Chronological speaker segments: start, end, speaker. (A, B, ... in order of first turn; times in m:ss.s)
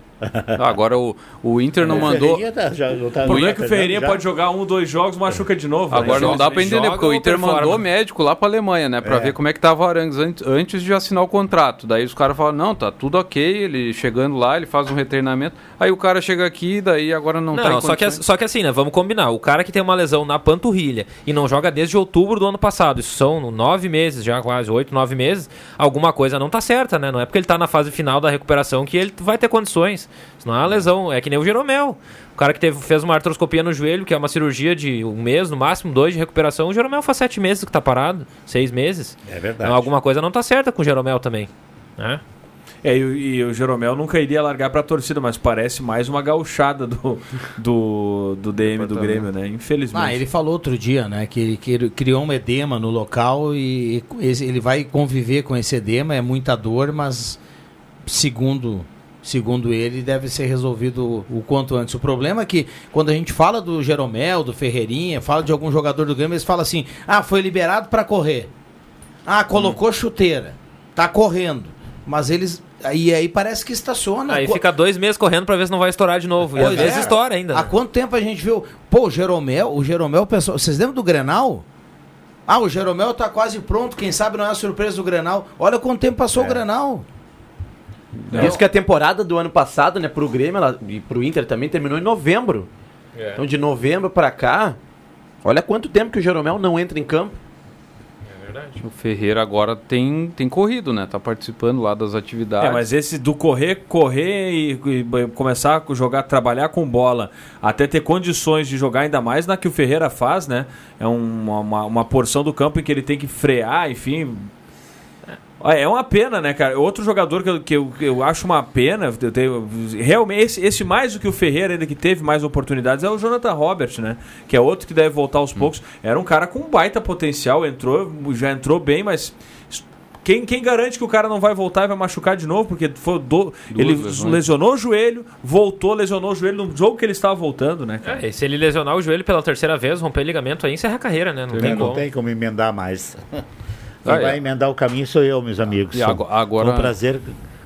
0:00.3-0:00.7 A
0:00.6-0:02.4 B
0:01.8-0:02.2 C
0:01.8-0:04.2 A
0:03.2-0:06.8 C
0:03.3-0:03.5 B
0:05.9-0:18.2 B
0:06.0-0:07.8 D
0:09.0-0:09.4 A
0:17.5-0:42.2 D
0:39.3-0:39.9 A
0:42.8-0:50.2 C
0:48.7-0:49.2 B
0:49.9-0:57.4 E
0:58.1-1:08.5 E
1:09.3-1:14.6 E
1:14.3-1:17.7 D
1:16.6-1:17.2 A
1:16.6-1:21.6 E
1:22.5-1:27.0 E
1:26.3-1:26.6 A
1:28.3-1:28.6 D
1:28.3-1:32.7 F
1:33.1-1:33.4 D
1:33.4-1:34.8 F
1:35.4-1:37.4 F
1:38.3-1:38.8 D
1:38.8-1:42.9 B
1:42.6-1:54.5 C
1:55.6-2:18.2 C
2:13.7-2:14.4 B
2:18.0-2:22.0 D
2:21.5-2:21.9 B
2:21.6-2:23.2 A
2:24.0-2:27.3 A
2:24.0-2:24.4 B
2:25.9-2:27.0 B